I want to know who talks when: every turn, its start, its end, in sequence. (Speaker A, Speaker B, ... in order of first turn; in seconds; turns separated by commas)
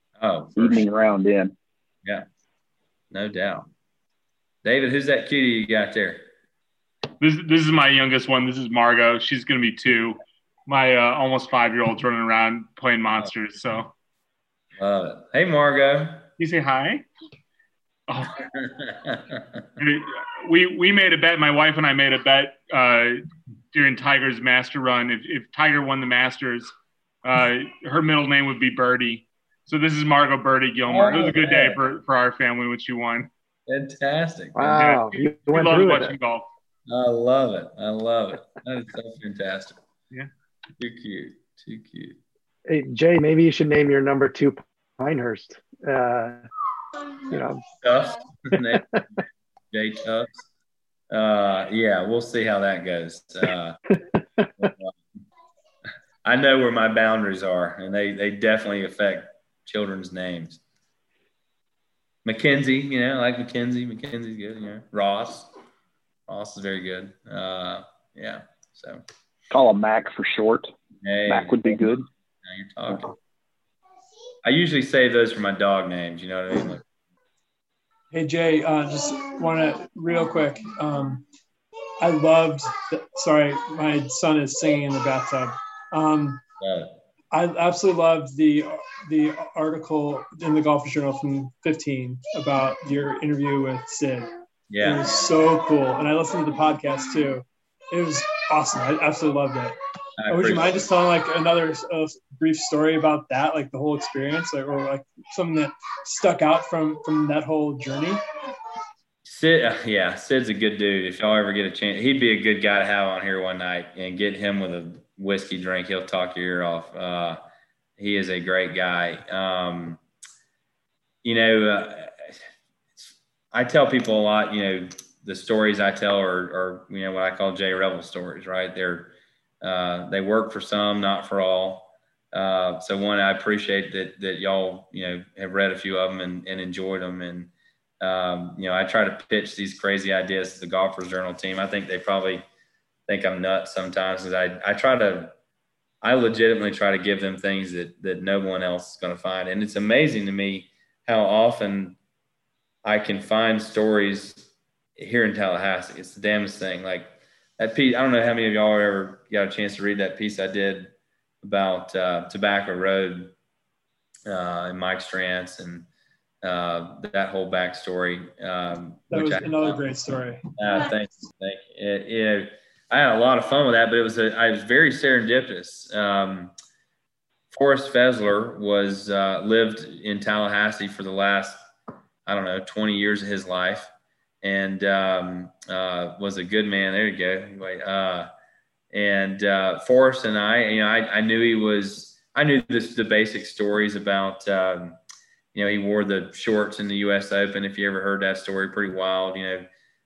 Speaker A: 0.2-0.8, Speaker B: 0.6-1.5, Speaker A: 3.1-3.7, Speaker A: 4.6-6.2, Speaker C: 7.2-13.9, Speaker A: 14.8-16.3, Speaker C: 16.4-17.1, Speaker C: 18.1-18.4, Speaker A: 18.5-19.6, Speaker C: 19.8-33.3, Speaker A: 30.9-31.8, Speaker A: 33.7-34.6, Speaker D: 34.5-36.1, Speaker C: 34.6-36.5, Speaker A: 36.9-39.8, Speaker A: 40.8-42.2, Speaker D: 42.7-46.5, Speaker D: 47.3-47.6, Speaker A: 47.8-49.0, Speaker D: 48.5-49.0, Speaker A: 49.7-50.4, Speaker A: 51.1-53.8, Speaker D: 54.4-54.7, Speaker A: 54.6-55.0, Speaker A: 56.2-60.6, Speaker A: 62.2-65.5, Speaker A: 66.3-69.0, Speaker B: 69.5-70.7, Speaker A: 71.0-73.2, Speaker B: 71.3-72.1, Speaker A: 74.4-76.8, Speaker E: 78.1-81.2, Speaker E: 82.0-86.4, Speaker A: 86.6-87.0, Speaker E: 87.3-94.3, Speaker A: 94.7-95.0, Speaker E: 94.8-99.8, Speaker A: 100.2-100.8, Speaker E: 100.3-108.2, Speaker A: 109.2-117.4, Speaker A: 118.0-120.0, Speaker A: 121.2-122.4, Speaker A: 123.0-142.5, Speaker A: 143.1-145.3, Speaker A: 146.0-152.0, Speaker A: 152.8-163.3, Speaker A: 164.3-165.9, Speaker A: 166.4-169.9, Speaker E: 169.1-170.5, Speaker A: 170.6-176.5, Speaker A: 177.5-181.6, Speaker A: 182.3-183.9, Speaker A: 184.4-188.3, Speaker A: 188.9-195.0, Speaker A: 195.5-199.7